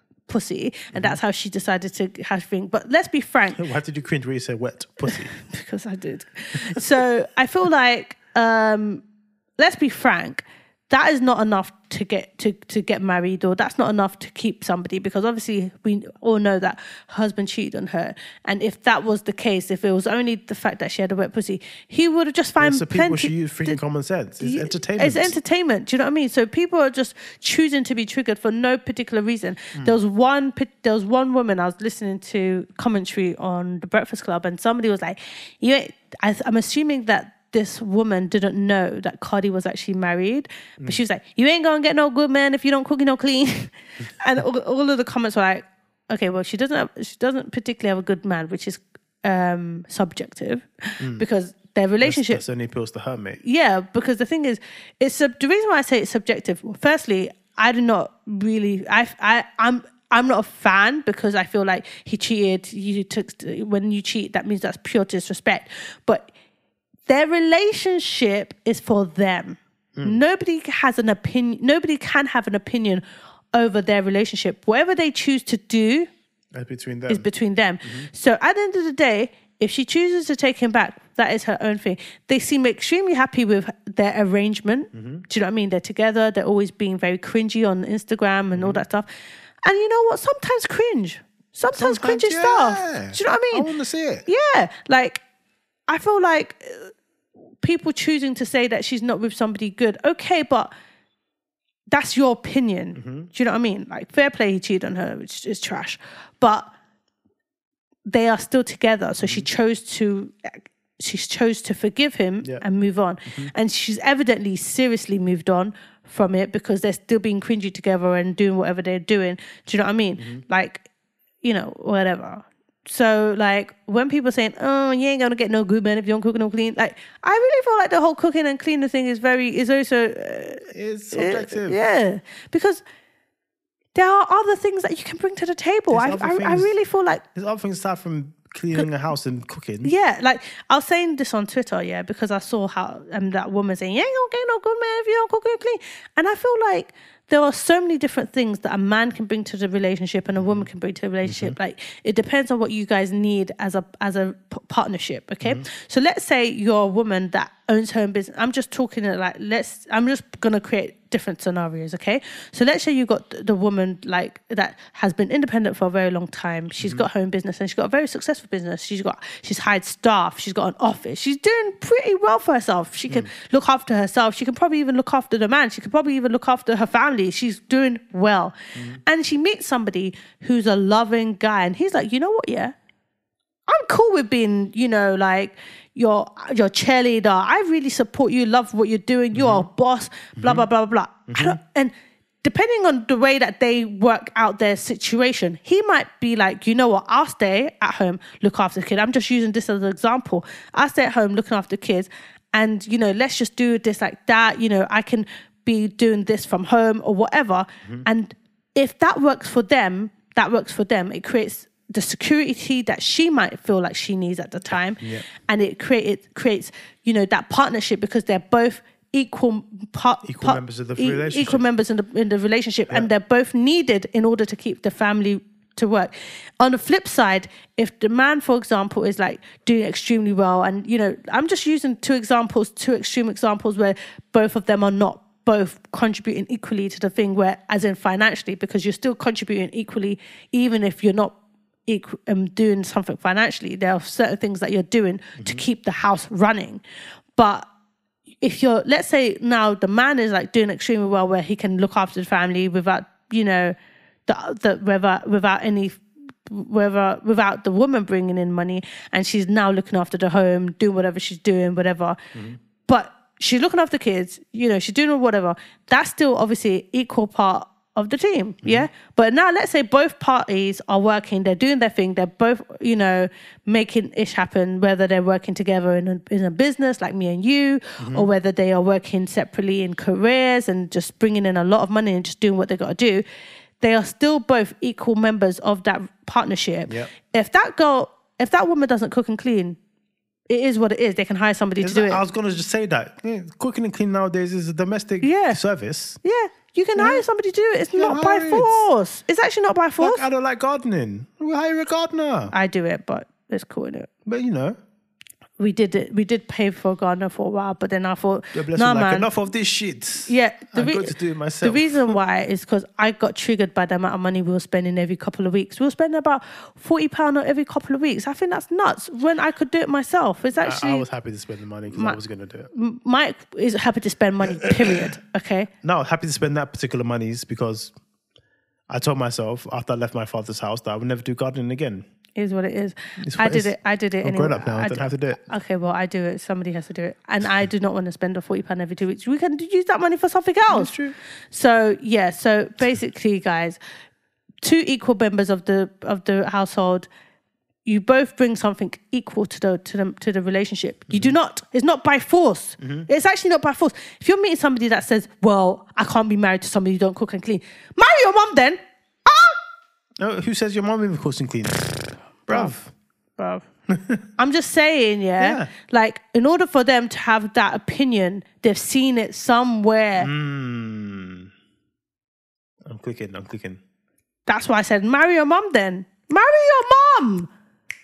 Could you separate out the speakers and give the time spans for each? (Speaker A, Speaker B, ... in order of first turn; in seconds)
Speaker A: 0.3-3.6, 5.0-9.0, 9.6-23.8, 24.4-52.4, 53.4-66.3, 67.1-76.1, 77.1-89.1, 89.6-93.7, 94.2-95.2, 95.9-96.9, 97.6-100.7, 101.9-106.7, 108.0-120.8, 121.4-132.8, 133.9-137.2, 139.8-182.7, 183.7-246.8, 247.3-247.7, 248.4-253.8, 254.3-262.2, 262.9-283.2, 283.8-289.8, 290.5-292.2, 295.2-295.6, 296.2-300.2, 302.5-304.1, 305.6-309.3, 310.3-321.1, 321.9-322.2, 322.7-325.7, 332.3-341.0, 341.5-343.8, 344.6-347.1, 347.8-359.6, 362.5-362.7, 363.4-363.6, 364.4-370.3, 374.5-377.5
Speaker B: 3.5-5.3, 22.6-25.3, 51.0-51.2, 52.0-53.4, 70.0-70.2, 76.5-77.3, 77.8-78.1, 84.9-85.2, 88.5-88.8, 91.7-94.2, 103.0-103.3, 109.2-109.5, 120.2-120.4, 130.7-131.8, 135.9-136.7, 137.3-139.9, 150.4-150.7, 151.2-151.6, 166.8-167.0, 178.7-179.0, 189.3-189.7, 190.4-190.7, 191.3-191.6, 214.7-215.2, 220.2-221.6, 245.4-245.6, 268.6-268.9, 278.0-278.3, 286.9-287.1, 291.8-296.2, 296.9-297.2, 297.9-298.8, 300.0-302.5, 304.2-304.8, 308.5-312.1, 320.6-322.7, 324.5-325.0, 325.8-327.9, 328.9-332.0, 333.2-335.4, 340.7-341.1, 351.1-351.3, 352.8-353.1, 360.2-362.9, 363.9-364.2, 365.4-365.7, 370.2-371.5, 372.9-373.8